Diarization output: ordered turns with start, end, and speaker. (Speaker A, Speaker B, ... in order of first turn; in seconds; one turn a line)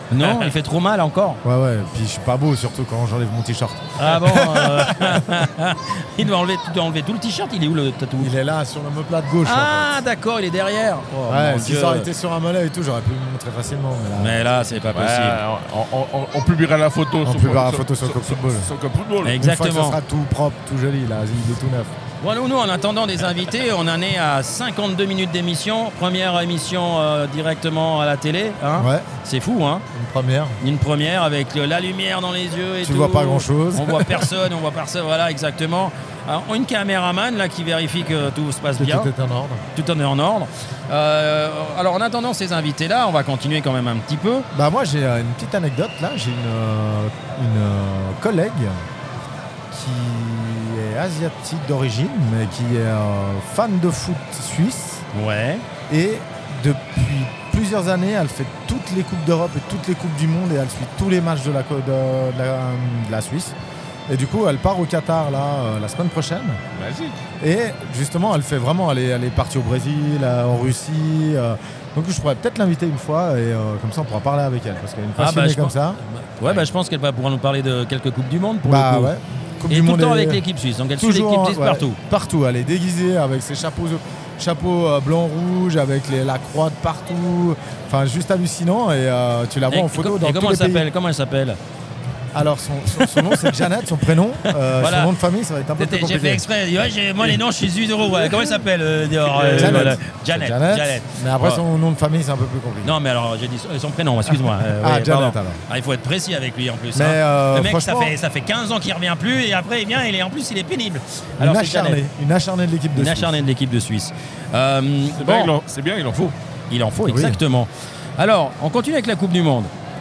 Speaker A: 0.1-1.4
Speaker B: 1.4-5.2
Speaker A: 4.0-8.3
Speaker B: 8.2-10.0
Speaker A: 9.4-12.1
Speaker B: 11.3-14.4
Speaker A: 14.2-15.4
Speaker C: 14.9-19.4
Speaker B: 17.2-18.7
Speaker A: 19.2-20.0
Speaker B: 19.4-21.9
Speaker A: 22.2-29.8
Speaker B: 28.8-29.1
Speaker B: 29.9-30.6
Speaker A: 30.6-39.1
Speaker B: 32.8-34.3
Speaker B: 38.8-39.6
Speaker A: 39.8-44.5
Speaker B: 44.5-48.8
Speaker B: 49.7-55.0
Speaker A: 55.1-55.6
Speaker B: 55.9-63.6
Speaker B: 64.1-66.6
Speaker C: 66.8-67.2
Speaker B: 67.4-76.0
Speaker A: 75.2-79.1
Speaker B: 78.7-80.4
Speaker A: 79.7-82.0
Speaker B: 81.0-90.9
Speaker A: 89.7-91.6
Speaker B: 92.3-96.5
Speaker A: 93.0-93.5
Speaker A: 94.8-95.1
Speaker A: 95.8-101.6
Speaker C: 99.3-100.0
Speaker B: 99.5-102.9
Speaker A: 102.8-112.0
Speaker B: 104.7-105.6
Speaker B: 106.9-108.2
Speaker B: 111.4-113.4
Speaker A: 113.0-115.5
Speaker C: 115.2-116.3
Speaker A: 116.7-119.7
Speaker B: 117.0-117.4